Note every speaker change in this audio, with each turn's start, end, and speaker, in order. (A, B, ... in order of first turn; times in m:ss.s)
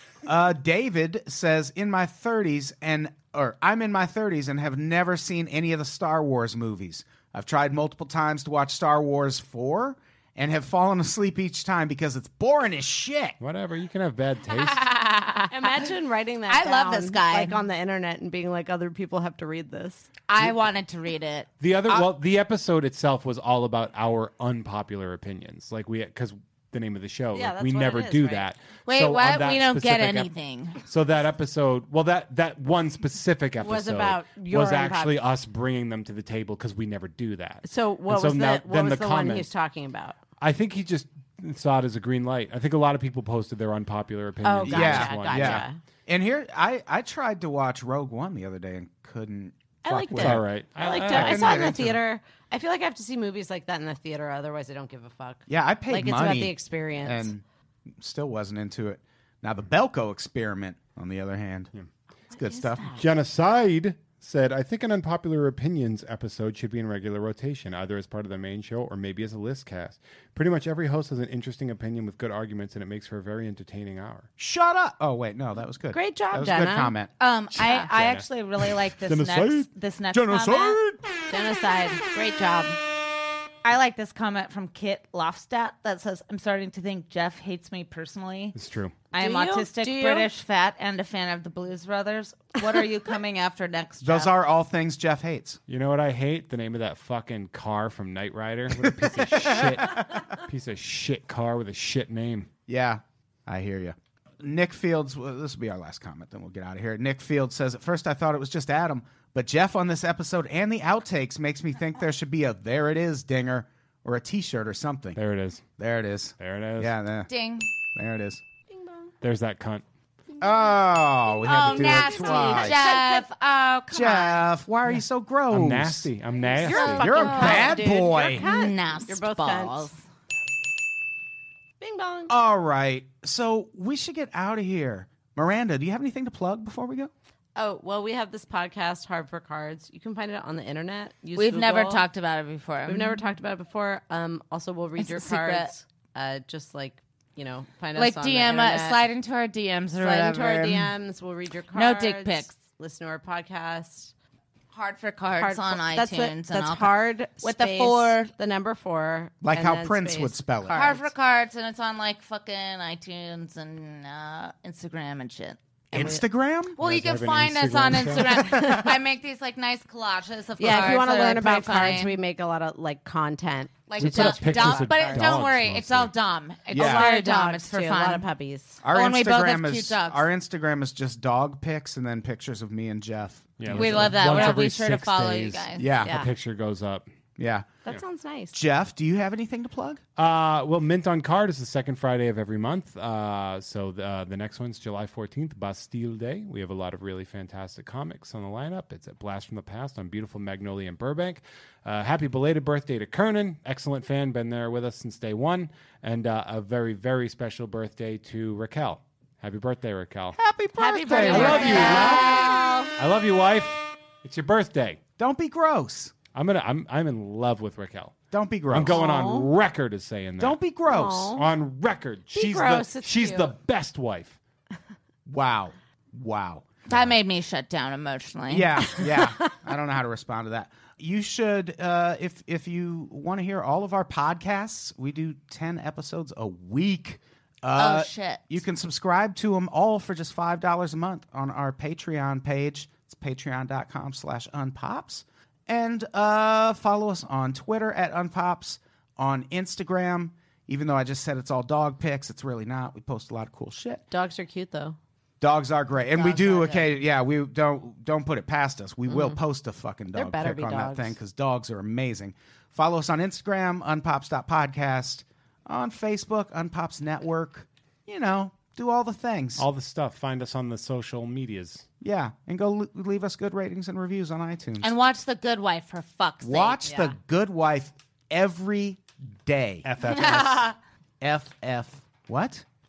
0:00.3-0:13.4 A
0:13.4-0:14.9 B
0:14.5-0:15.9 C
0:15.5-0:20.1 D
0:16.5-0:17.6 C
0:20.3-0:21.5 C
0:21.6-0:30.3 B
0:27.3-0:28.5 D
0:28.9-0:30.8 C
0:30.8-0:39.5 B
0:33.6-0:35.2 D
0:37.6-0:40.2 D
0:40.4-0:45.7 B
0:44.4-0:45.8 D
0:44.7-0:50.4 A
0:49.8-0:57.3 D
0:50.2-0:51.8 B
0:51.1-0:52.0 A
0:55.5-1:01.7 A
1:02.3-1:03.0 A
1:02.3-1:03.1 D
1:03.0-1:14.3 B
1:14.4-1:17.1 A
1:15.9-1:17.0 D
1:17.2-1:20.8 C
1:17.6-1:18.3 B
1:19.0-1:19.7 B
1:20.1-1:21.0 A
1:21.3-1:22.8 D
1:23.6-1:28.6 C
1:28.5-1:29.0 B
1:29.1-1:34.3 C
1:29.2-1:30.3 D
1:34.0-1:35.6 A
1:35.7-1:42.5 B
1:38.8-1:40.2 A
1:42.7-1:55.2 A
1:55.2-1:55.6 B
1:55.8-1:57.3 A
1:56.4-1:57.0 B
1:57.3-1:57.7 C
1:57.8-1:58.4 A
1:58.7-1:59.1 D
1:59.2-1:59.8 B
2:00.4-2:02.8 A
2:01.4-2:04.5 C
2:01.5-2:02.7 B
2:01.9-2:03.3 D
2:03.9-2:06.1 A
2:05.5-2:07.6 B
2:06.6-2:09.9 D
2:06.6-2:07.8 C
2:06.8-2:08.4 A
2:08.4-2:09.9 C
2:11.8-2:12.3 D
2:12.3-2:17.1 A
2:17.6-2:22.0 D
2:21.4-2:23.2 C
2:22.9-2:29.0 D
2:25.0-2:25.7 C
2:28.0-2:30.9 C
2:30.0-2:34.1 D
2:31.7-2:32.5 C
2:34.7-2:38.3 C
2:35.4-2:41.1 D
2:39.4-2:40.8 A
2:40.7-2:45.6 C
2:45.9-2:46.7 A
2:45.9-2:46.2 D
2:46.8-2:52.2 C
2:46.8-2:48.6 B
2:48.4-2:48.9 D
2:50.6-2:55.3 D
2:53.9-2:58.3 C
2:54.0-2:56.1 B
2:56.7-2:57.1 A
2:56.7-2:58.8 D
2:58.8-3:04.3 A
2:58.9-3:00.3 C
3:03.6-3:07.1 B
3:03.7-3:05.9 C
3:05.8-3:06.1 A
3:06.0-3:06.3 D
3:07.4-3:07.7 A
3:07.9-3:08.6 D
3:08.5-3:10.0 A
3:10.2-3:30.4 B
3:30.4-3:32.2 A
3:30.7-3:32.9 D
3:31.2-3:32.4 B
3:31.2-3:32.8 C
3:33.0-3:35.0 B
3:35.2-3:36.1 A
3:36.3-3:40.6 B
3:38.3-3:39.1 A
3:38.9-3:39.5 D
3:40.4-3:41.3 A
3:40.9-3:41.5 D
3:41.3-3:44.4 B
3:42.3-3:43.5 D
3:45.3-3:46.8 A
3:46.9-3:49.1 C
3:48.5-4:14.0 A
3:57.7-3:58.6 C
4:14.1-4:15.0 D
4:15.4-4:29.6 A
4:16.1-4:16.9 D
4:19.1-4:19.4 D
4:20.1-4:21.2 D
4:29.6-4:31.9 B
4:32.0-4:34.9 A
4:34.8-4:36.8 C
4:36.4-4:39.9 A
4:36.8-4:37.1 D
4:39.8-4:40.7 B
4:40.0-4:40.7 C
4:41.2-4:42.6 A